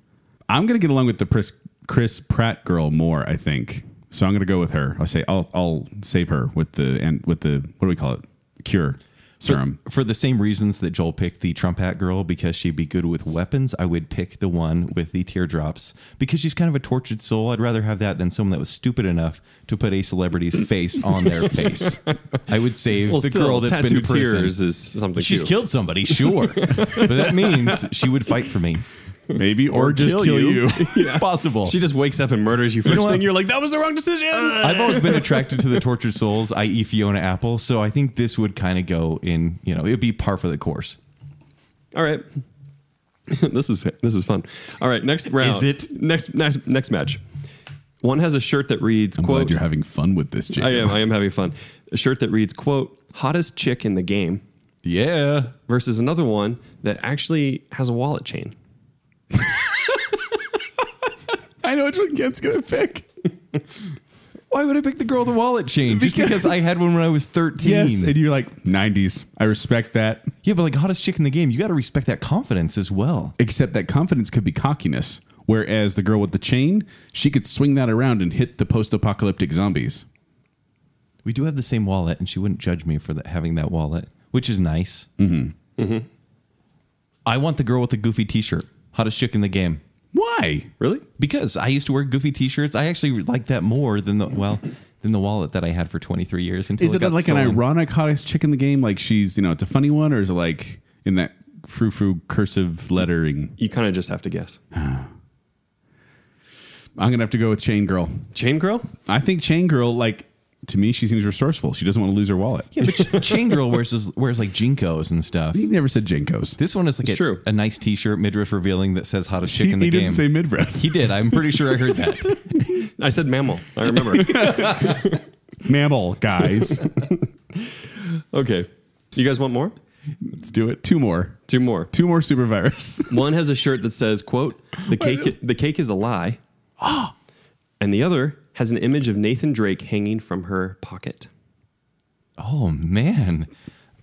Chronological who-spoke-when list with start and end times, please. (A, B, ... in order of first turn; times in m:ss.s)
0:00.5-0:09.8 A
0:09.4-0:24.6 B
0:21.8-0:22.2 C
0:23.1-0:25.5 C
0:25.2-0:28.8 B
0:26.1-0:27.8 C
0:29.3-0:35.5 C
0:29.3-0:31.0 A
0:29.8-0:31.8 B
0:32.8-0:33.3 B
0:34.5-0:41.0 B
0:41.9-0:42.3 C
0:43.3-0:47.2 C
0:45.4-0:45.9 B
0:48.0-0:49.6 C
0:49.2-0:51.0 A
0:50.6-0:54.4 C
0:54.8-0:55.5 B
0:55.7-0:58.6 C
0:59.4-1:00.0 A
1:01.6-1:03.1 A
1:04.5-1:08.2 B
1:05.9-1:06.6 A
1:07.6-1:10.3 A
1:10.4-1:13.4 B
1:13.4-1:20.0 A
1:21.2-1:25.1 B
1:25.2-1:25.5 A
1:25.8-1:26.1 C
1:27.3-1:29.8 B
1:30.1-1:30.7 A
1:31.2-1:37.6 B
1:36.8-1:43.5 A
1:43.6-1:44.6 C
1:44.7-1:45.1 A
1:47.0-1:48.3 A
1:48.3-1:48.9 C
1:49.1-1:52.8 A
1:52.8-1:55.7 B
1:55.5-1:56.6 A
1:56.6-2:02.3 B
1:57.0-1:57.4 C
1:59.4-2:01.8 A
2:02.8-2:05.2 C
2:04.1-2:05.0 A
2:05.6-2:06.8 A
2:06.5-2:09.8 C
2:10.3-2:11.4 A
2:11.5-2:11.9 C
2:11.9-2:13.2 A
2:13.1-2:16.4 C
2:14.9-2:15.3 A
2:16.8-2:17.1 A
2:17.8-2:21.3 C
2:22.4-2:23.5 B